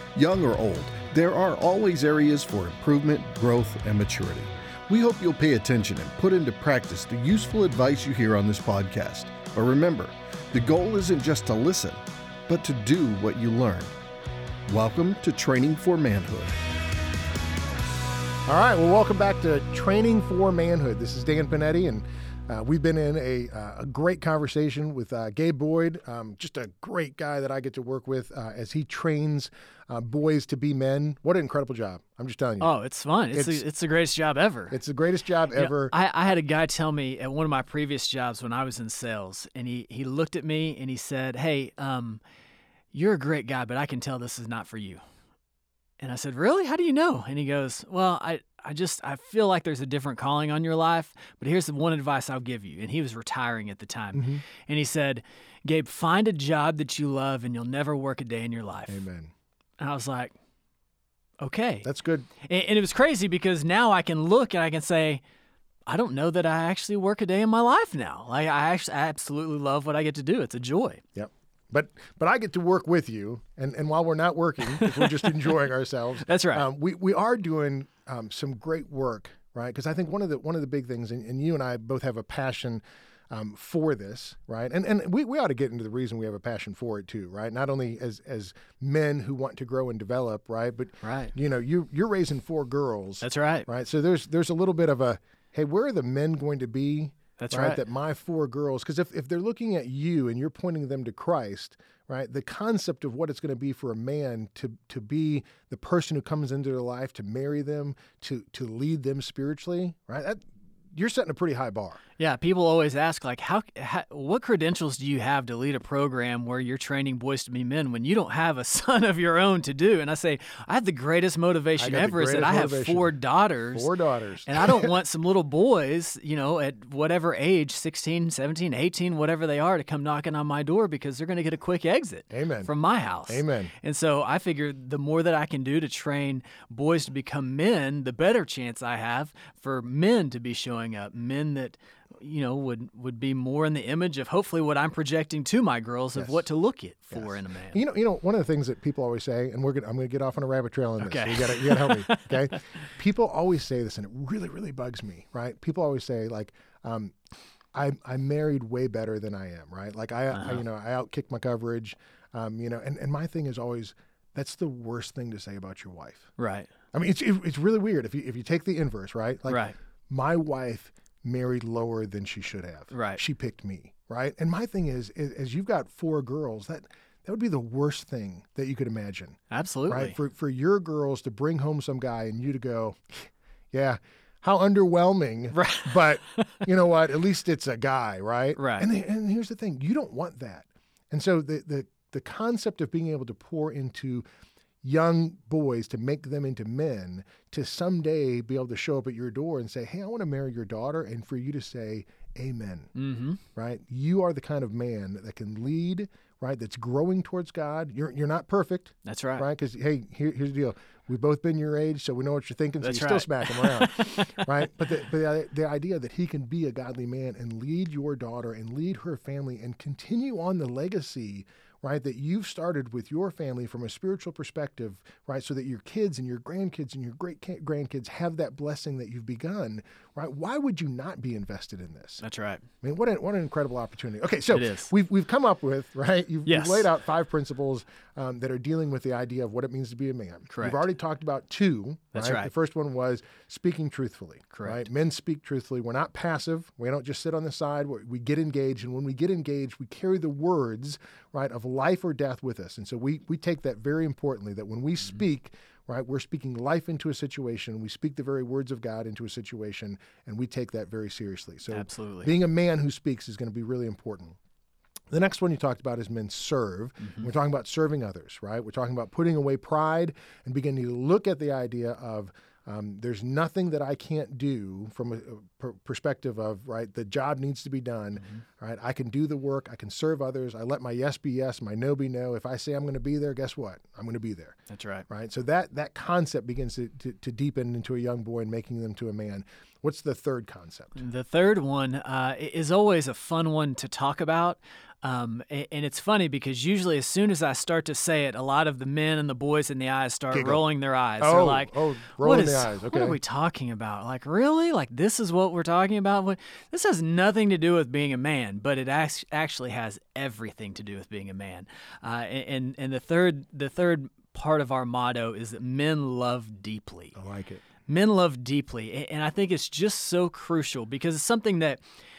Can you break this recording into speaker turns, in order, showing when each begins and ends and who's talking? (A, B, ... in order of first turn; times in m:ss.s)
0:00.2-0:14.0 A
0:14.7-0:16.6 A
0:18.5-0:32.7 B
0:32.6-0:34.8 C
0:33.3-0:33.6 B
0:34.7-0:35.9 B
0:35.5-0:42.2 C
0:42.9-0:45.0 C
0:46.0-0:59.0 C
0:54.1-0:54.4 B
0:58.9-0:59.3 B
0:59.8-1:00.3 C
1:01.4-1:01.9 C
1:01.8-1:02.3 B
1:02.4-1:05.2 C
1:05.9-1:11.0 C
1:11.1-1:52.0 B
1:16.2-1:16.6 C
1:31.0-1:31.3 C
1:33.2-1:33.7 C
1:37.4-1:37.8 C
1:52.2-2:03.9 C
2:01.8-2:03.2 B
2:03.7-2:04.9 B
2:04.4-2:27.8 C
2:12.3-2:12.7 B
2:13.2-2:13.7 B
2:26.1-2:26.4 B
2:27.1-2:37.1 B
2:31.0-2:32.8 C
2:37.7-2:46.3 B
2:40.3-2:40.6 C
2:46.4-2:46.7 C
2:46.9-3:14.2 B
2:49.5-2:49.7 C
2:52.9-2:53.2 C
2:59.5-3:00.2 C
3:05.5-3:06.6 C
3:08.5-3:08.9 C
3:14.8-3:22.9 B
3:22.9-3:23.4 C
3:23.5-3:52.2 B
3:29.0-3:29.4 C
3:32.8-3:34.4 C
3:52.2-3:52.6 C
3:52.8-4:24.4 B
3:54.5-3:54.9 C
3:56.4-3:56.9 C
4:00.5-4:00.9 C
4:02.1-4:02.5 C
4:04.5-4:04.8 C
4:21.7-4:22.3 C
4:25.1-4:44.6 B
4:27.0-4:27.3 C
4:44.7-4:45.0 C
4:45.1-4:51.0 B
4:51.0-5:17.2 C
5:00.3-5:00.6 B
5:01.2-5:03.2 B
5:17.1-5:17.6 B
5:17.9-5:21.8 C